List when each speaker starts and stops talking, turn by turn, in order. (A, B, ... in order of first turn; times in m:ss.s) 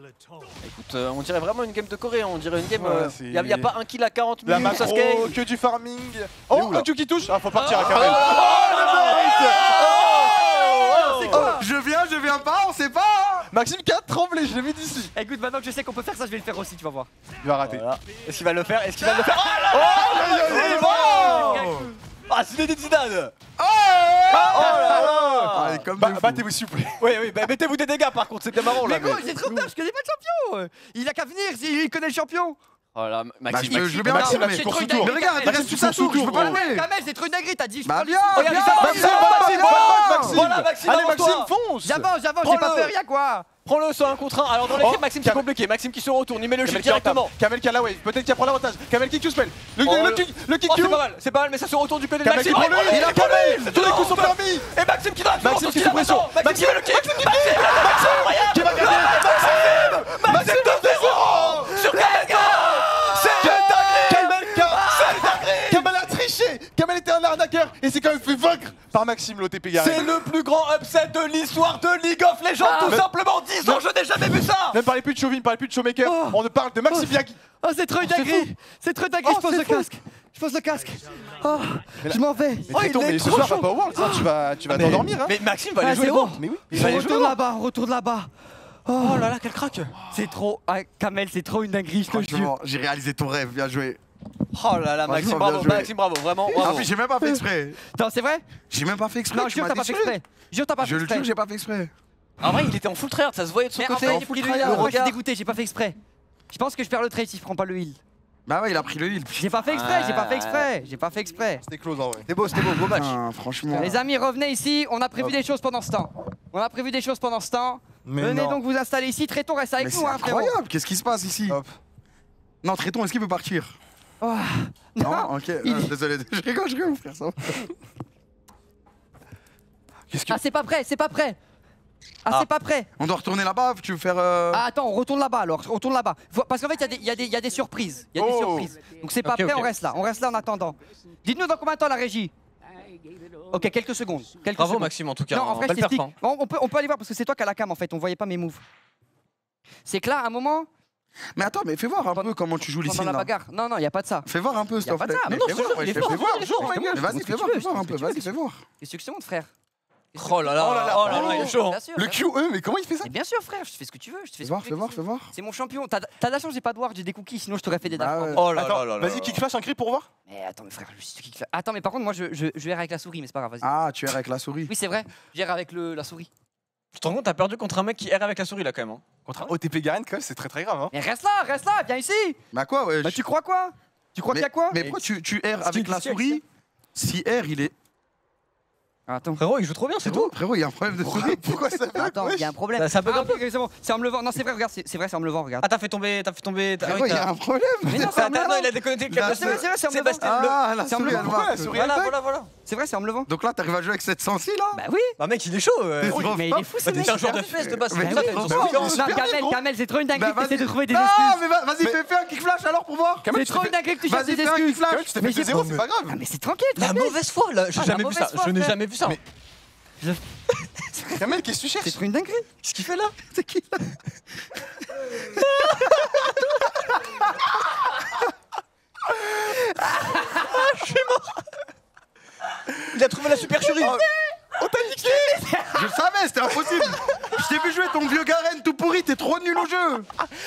0:00.6-0:05.4 A
0:02.7-0:03.7 B
0:04.4-0:11.4 B
0:07.5-0:11.5 A
0:08.0-0:11.6 C
0:11.3-0:13.5 D
0:13.5-0:15.1 B
0:15.1-0:17.1 C
0:17.4-0:17.8 B
0:17.6-0:23.3 A
0:19.1-0:21.9 C
0:19.7-0:21.3 B
0:20.3-0:21.9 D
0:23.6-0:26.4 D
0:24.3-0:25.8 A
0:24.3-0:25.1 C
0:24.4-0:27.0 B
0:27.0-0:29.6 A
0:28.8-0:32.6 C
0:32.9-0:34.2 A
0:33.5-0:36.9 D
0:33.7-0:36.6 B
0:33.7-0:41.1 C
0:37.8-0:40.4 D
0:38.4-0:41.5 A
0:38.4-0:42.9 B
0:41.8-0:43.5 C
0:43.6-0:47.3 A
0:44.7-0:45.5 B
0:46.6-0:51.0 B
0:49.8-1:05.8 A
0:52.2-0:54.7 B
0:52.9-0:53.8 D
0:55.4-1:01.8 B
0:57.7-1:01.0 C
1:01.5-1:03.6 C
1:03.2-1:10.3 B
1:05.2-1:05.6 C
1:09.8-1:14.8 A
1:12.6-1:13.8 B
1:12.6-1:13.0 C
1:14.7-1:17.4 B
1:16.0-1:22.8 C
1:18.0-1:18.4 B
1:19.2-1:19.9 B
1:22.0-1:25.4 B
1:22.7-1:23.7 A
1:23.3-1:24.3 C
1:24.7-1:27.1 A
1:25.8-1:28.3 C
1:26.4-1:27.4 B
1:28.8-1:29.3 C
1:29.0-1:29.9 A
1:30.1-1:32.5 C
1:32.1-1:34.0 D
1:34.5-1:36.9 A
1:35.0-1:35.9 D
1:36.5-1:38.4 C
1:36.6-1:37.8 D
1:38.7-1:40.2 D
1:39.3-1:41.3 C
1:40.8-1:41.9 D
1:42.4-1:45.2 A
1:43.7-1:46.0 C
1:44.1-1:44.9 D
1:46.5-1:48.0 C
1:48.5-1:49.5 D
1:49.4-1:51.6 C
1:49.6-1:50.7 A
1:51.6-1:52.3 B
1:52.3-1:53.2 A
1:52.9-1:54.0 D
1:53.7-2:00.6 C
1:58.0-1:58.6 B
1:59.8-2:01.6 D
2:01.5-2:01.8 B
2:02.6-2:03.8 D
2:04.2-2:05.9 C
2:05.0-2:07.7 D
2:10.1-2:10.4 B
2:10.3-2:11.4 C
2:12.2-2:12.9 C
2:13.0-2:14.6 D
2:14.5-2:22.3 C
2:18.1-2:18.7 B
2:19.2-2:19.7 A
2:23.5-2:28.6 C
2:24.6-2:26.1 A
2:29.8-2:30.7 C
2:31.3-2:33.3 D
2:32.1-2:34.3 C
2:34.2-2:38.6 D
2:34.8-2:38.3 C
2:35.4-2:37.1 A
2:36.0-2:36.6 B
2:38.8-2:39.5 C
2:40.1-2:42.2 C
2:40.2-2:41.8 A
2:40.6-2:43.1 B
2:43.0-2:48.4 C
2:44.4-2:45.3 D
2:47.9-2:48.4 D
2:48.3-2:49.4 A
2:48.5-2:50.1 B
2:50.3-2:53.7 C
2:53.6-2:54.7 D
2:54.7-2:56.3 C
2:56.9-2:59.1 A
2:59.3-3:00.9 B
3:00.9-3:02.4 C
3:02.5-3:03.2 D
3:03.0-3:04.8 C
3:04.3-3:06.4 D
3:05.6-3:06.4 A
3:06.9-3:07.7 D
3:09.1-3:09.4 C
3:09.4-3:10.3 A
3:10.0-3:11.5 D
3:11.0-3:12.5 B
3:11.9-3:15.7 C
3:12.8-3:13.4 A
3:15.6-3:17.3 A
3:16.8-3:18.3 D
3:17.8-3:21.3 C
3:17.9-3:20.6 A
3:19.1-3:19.6 D
3:20.2-3:21.7 D
3:21.0-3:22.2 B
3:21.7-3:22.5 A
3:22.6-3:23.3 C
3:23.3-3:24.8 D
3:24.7-3:25.1 C
3:25.2-3:29.0 A
3:26.0-3:29.0 D
3:26.0-3:31.4 C
3:28.3-3:29.6 B
3:30.1-3:33.3 D
3:33.3-3:37.2 C
3:33.3-3:33.7 B
3:34.0-3:35.3 D
3:34.9-3:36.2 B
3:36.8-3:39.2 A
3:37.7-3:38.8 C
3:41.1-3:42.0 B
3:41.8-3:44.0 C
3:42.6-3:43.1 A
3:45.3-3:46.3 C
3:49.3-3:51.0 C
3:52.9-3:54.0 A
3:54.6-3:55.7 B
3:55.0-3:55.8 C
3:55.7-4:00.1 D